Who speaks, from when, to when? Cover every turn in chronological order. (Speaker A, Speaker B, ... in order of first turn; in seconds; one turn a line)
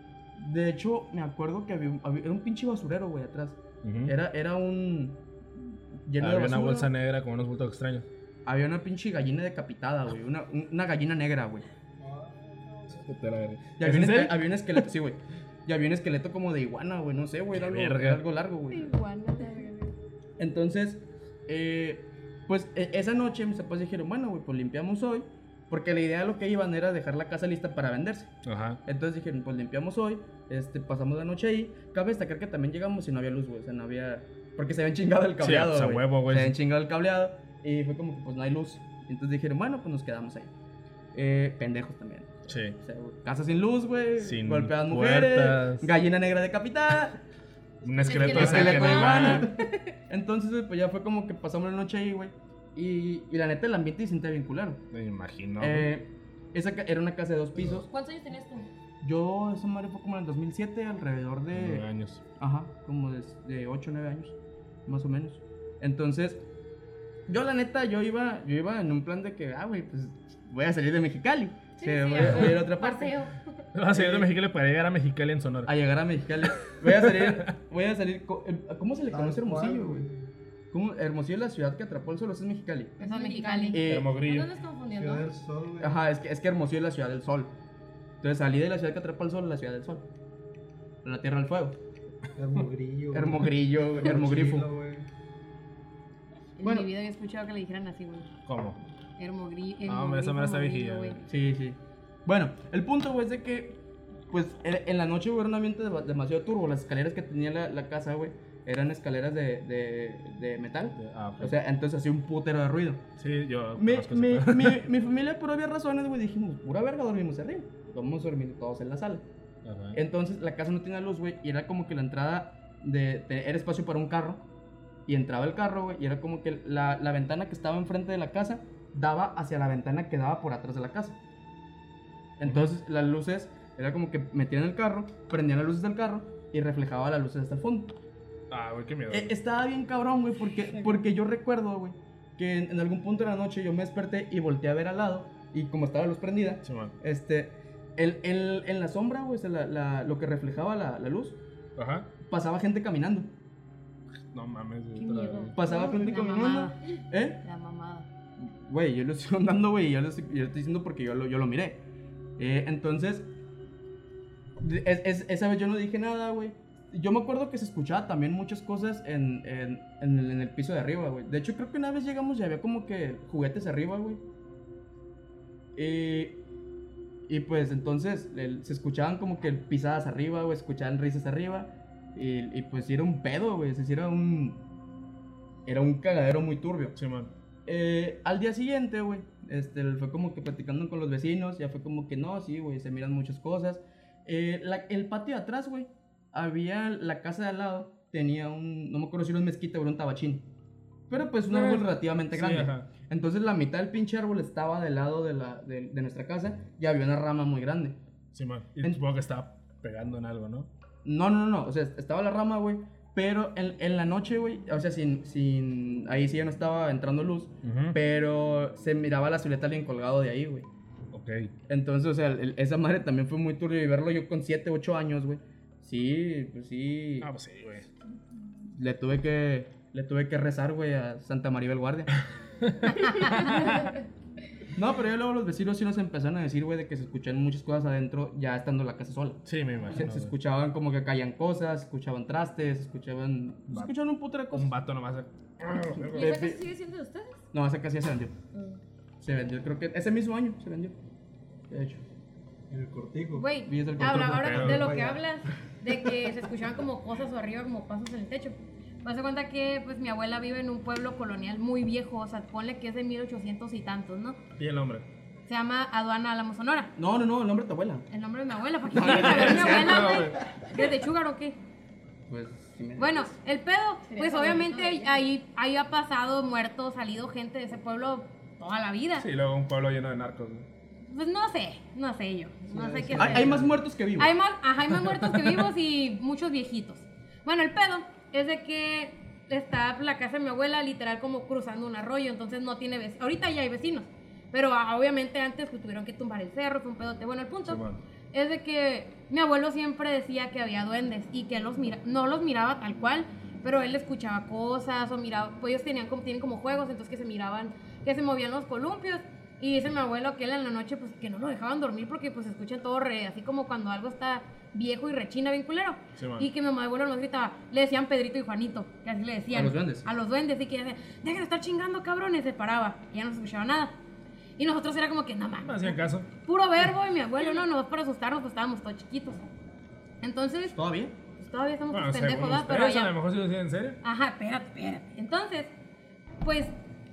Speaker A: 0.3-6.9
Speaker B: 3.8-4.1
Speaker B: 6.2-8.1
Speaker A: 8.4-11.7
Speaker C: 12.0-13.0
Speaker B: 12.9-14.4
Speaker A: 13.8-18.9
Speaker B: 17.5-18.2
Speaker D: 18.7-19.9
Speaker A: 20.4-40.5
Speaker B: 28.4-28.8
Speaker B: 35.4-36.5
Speaker A: 41.1-47.2
Speaker B: 42.5-42.8
Speaker B: 44.2-45.9
Speaker B: 47.8-49.5
Speaker E: 48.0-49.7
Speaker A: 48.1-49.5
Speaker A: 50.1-54.8
Speaker B: 54.9-55.9
Speaker A: 55.6-57.9
Speaker E: 57.8-58.7
Speaker A: 59.0-61.9
Speaker B: 61.5-62.2
Speaker A: 62.4-66.4
Speaker A: 67.3-73.2
Speaker E: 71.8-73.6
Speaker B: 72.2-72.5
Speaker B: 73.7-75.7
Speaker A: 73.9-74.3
Speaker A: 75.7-80.0
Speaker B: 76.6-77.5
Speaker C: 79.1-80.2
Speaker A: 80.7-83.0
Speaker E: 83.0-85.3
Speaker D: 83.0-83.8
Speaker A: 83.7-84.2
Speaker B: 83.8-84.5
Speaker C: 84.9-86.0
Speaker A: 85.8-87.5
Speaker A: 88.2-90.1
Speaker A: 91.0-91.8
Speaker C: 92.3-95.1
Speaker A: 93.1-94.7
Speaker D: 96.6-98.3
Speaker A: 96.6-96.9
Speaker B: 98.5-98.8
Speaker D: 99.2-101.2
Speaker B: 99.8-101.2
Speaker A: 101.3-103.8
Speaker A: 104.3-113.0
Speaker B: 111.0-111.6
Speaker B: 113.2-114.8
Speaker A: 113.8-119.2
Speaker B: 119.6-120.0
Speaker A: 119.9-124.4
Speaker A: 125.0-131.2
Speaker A: 132.4-137.9
Speaker B: 132.4-132.7
Speaker B: 138.5-139.3
Speaker A: 139.1-151.4
Speaker B: 146.6-146.9
Speaker B: 151.8-152.1
Speaker A: 152.2-153.3
Speaker B: 154.3-155.6
Speaker E: 155.0-156.2
Speaker D: 155.4-156.8
Speaker A: 155.6-157.4
Speaker D: 157.4-158.1
Speaker A: 158.4-161.8
Speaker A: 162.4-163.3
Speaker A: 164.6-174.2
Speaker A: 175.7-176.4
Speaker A: 177.3-184.6
Speaker A: 185.7-187.0
Speaker B: 186.9-187.3
Speaker A: 187.7-200.4
Speaker A: 201.1-208.0
Speaker B: 201.5-202.9
Speaker B: 208.3-210.7
Speaker A: 211.0-220.7
Speaker B: 217.6-218.0
Speaker B: 221.1-221.5
Speaker A: 221.7-227.3
Speaker B: 227.2-227.9
Speaker A: 228.7-232.1
Speaker B: 232.6-233.7
Speaker D: 232.9-233.7
Speaker A: 234.7-244.7
Speaker B: 239.4-240.3
Speaker B: 244.5-246.4
Speaker E: 246.1-247.4
Speaker A: 246.1-246.6
Speaker A: 247.5-248.3
Speaker E: 248.5-248.8
Speaker A: 249.2-250.9
Speaker A: 251.7-252.0
Speaker C: 252.7-253.5
Speaker D: 253.3-264.4
Speaker A: 253.7-254.7
Speaker B: 254.0-254.9
Speaker C: 254.6-255.2
Speaker B: 264.6-265.0
Speaker D: 265.5-266.9
Speaker A: 266.9-268.1
Speaker D: 268.1-271.6
Speaker A: 268.9-270.2
Speaker B: 269.0-270.4
Speaker A: 272.3-273.3
Speaker D: 273.0-279.3
Speaker E: 274.1-275.3
Speaker B: 279.2-280.6
Speaker D: 281.1-283.6
Speaker C: 282.7-283.2
Speaker A: 283.1-284.3
Speaker D: 284.2-323.9
Speaker B: 285.0-285.5
Speaker B: 297.6-298.0
Speaker B: 316.1-316.5
Speaker A: 319.5-320.1
Speaker D: 324.6-329.4
Speaker B: 325.6-326.3
Speaker D: 330.2-330.8
Speaker A: 330.7-331.1
Speaker D: 331.4-333.1
Speaker B: 331.9-334.0
Speaker D: 334.0-335.7
Speaker D: 336.4-336.7